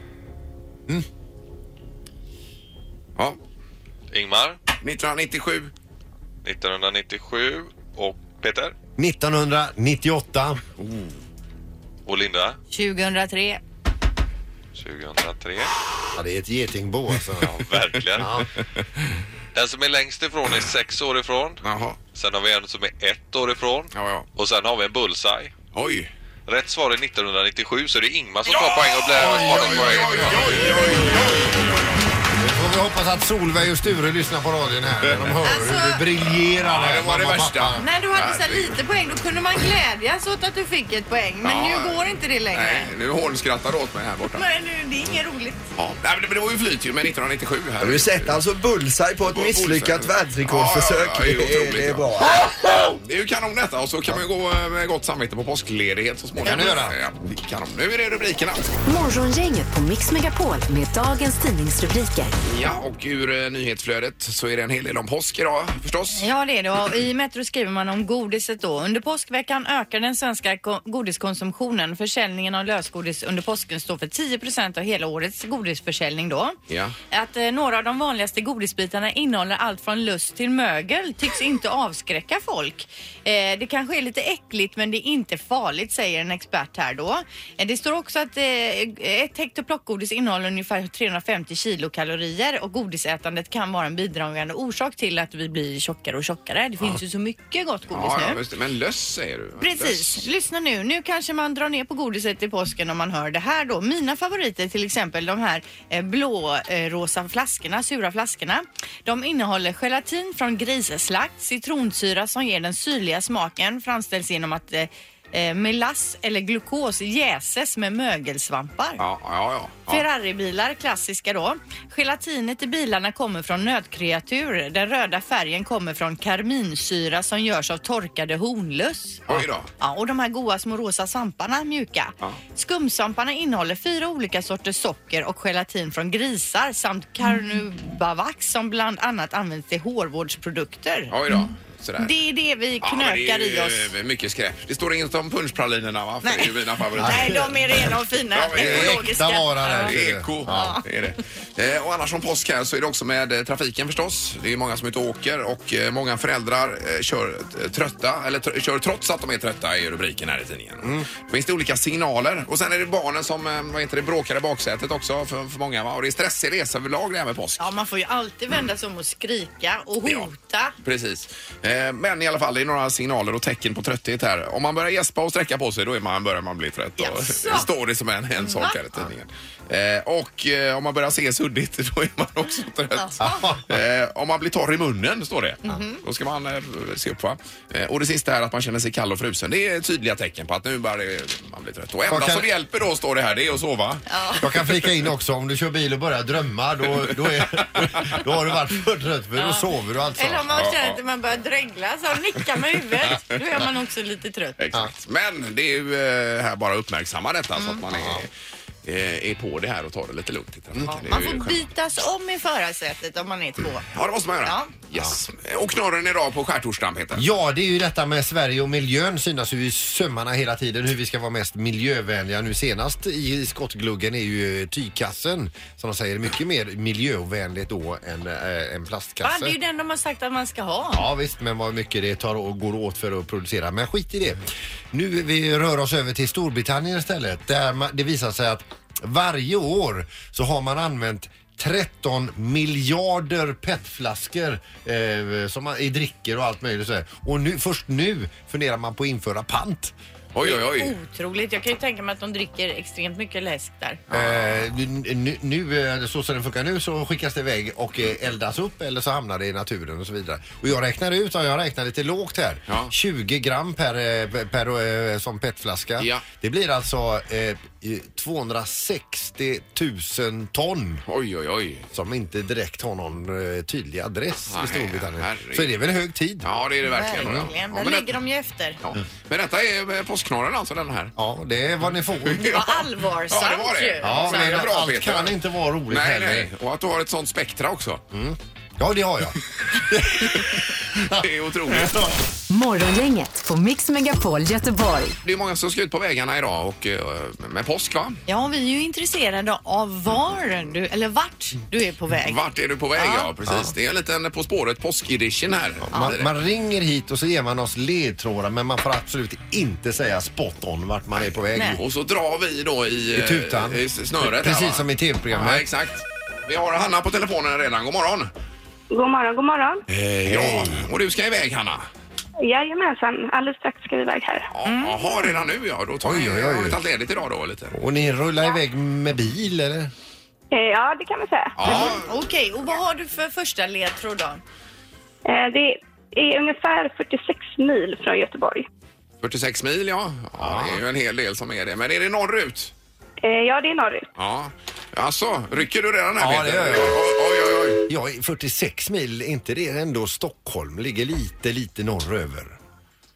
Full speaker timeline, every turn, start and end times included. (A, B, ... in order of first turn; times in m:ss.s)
0:04.1-0:04.6 A
0:04.8-0:05.7 B
0:06.4-0:08.7 A
0:09.0-0:10.6 C
0:12.0-0:12.6 A
0:12.7-0:13.6 D
0:14.7-0:15.7 A
0:16.1-0:17.6 C
0:17.4-0:18.3 A
0:18.2-0:18.5 C
0:19.5-0:25.6 A
0:21.6-0:22.0 B
0:23.9-0:24.3 B
0:25.7-0:26.1 B
0:26.5-0:30.6 A
0:28.5-0:32.1 B
0:29.2-0:30.8 C
0:32.4-0:37.8 C
0:35.0-0:35.4 B
0:35.4-0:36.0 D
0:36.3-0:38.8 B
0:37.8-0:42.9 D
0:41.4-0:44.4 B
0:44.3-0:45.7 D
0:45.8-0:48.4 B
0:47.8-0:52.5 E
0:49.2-0:58.7 B
0:56.4-0:57.0 C
0:58.8-1:02.3 F
1:02.4-1:06.3 B
1:06.1-1:16.6 D
1:16.7-1:17.0 B
1:17.1-1:38.4 D
1:37.9-1:40.3 B
1:39.6-1:59.0 D
1:59.0-2:00.0 B
1:59.9-2:21.1 D
2:09.3-2:09.7 B
2:21.1-2:22.1 B
2:22.0-2:23.9 D
2:22.8-2:27.5 B
2:26.2-2:30.8 D
2:27.0-2:27.8 C
2:28.3-2:29.0 B
2:28.5-2:30.8 C
2:29.8-2:47.7 B
2:47.6-2:50.7 D
2:50.8-3:14.0 B
2:57.0-2:57.7 D
2:58.4-2:58.8 D
3:03.0-3:03.4 D
3:03.2-3:03.8 C
3:05.6-3:06.0 D
3:12.1-3:12.5 C
3:14.1-3:14.4 D
3:14.4-3:20.6 C
3:17.0-3:18.2 B
3:19.4-3:19.6 D
3:20.2-3:24.6 D
3:20.5-3:21.0 B
3:24.6-3:28.3 B
3:27.6-3:27.8 D
3:27.9-3:28.2 C
3:28.8-3:31.7 B
3:30.9-3:33.8 D
3:33.9-3:37.2 B
3:34.4-3:34.7 D
3:37.1-3:49.6 C
3:49.2-3:51.0 D
3:50.9-4:09.9 C
4:10.3-4:10.9 B
4:10.4-4:14.0 D
4:14.1-4:14.5 B
4:14.1-4:31.0 C
4:26.0-4:26.2 B
4:31.1-4:31.8 B
4:31.9-4:36.5 C
4:34.5-4:35.7 B
4:36.4-4:38.1 B
4:36.8-4:38.8 D
4:38.8-4:41.1 B
4:41.2-4:42.6 C
4:42.3-4:45.3 B
4:42.4-4:44.6 D
4:44.0-4:46.5 C
4:45.9-4:48.0 B
4:48.1-4:52.2 C
4:50.1-4:52.0 B
4:52.5-4:55.2 F
4:55.2-4:58.2 B
4:58.3-5:02.4 D
5:02.2-5:06.3 B
5:03.0-5:03.3 D
5:03.4-5:03.7 C
5:05.9-5:11.8 C
5:11.5-5:11.8 D
5:11.8-5:18.3 B
5:13.1-5:15.6 C
5:18.9-5:19.8 G
5:19.9-5:21.8 B
5:20.2-5:20.9 C
5:22.4-5:24.5 G
5:24.5-5:27.7 B
5:24.6-5:25.0 D
5:26.0-5:26.8 C
5:27.7-5:29.9 C
5:30.5-5:32.0 G
5:31.6-5:32.1 B
5:31.6-5:34.4 D
5:35.2-5:38.6 G
5:39.2-5:42.7 B
5:40.4-5:40.8 C
5:43.2-5:44.1 G
5:44.2-5:47.8 B
5:46.2-5:47.0 C
5:47.9-5:52.6 C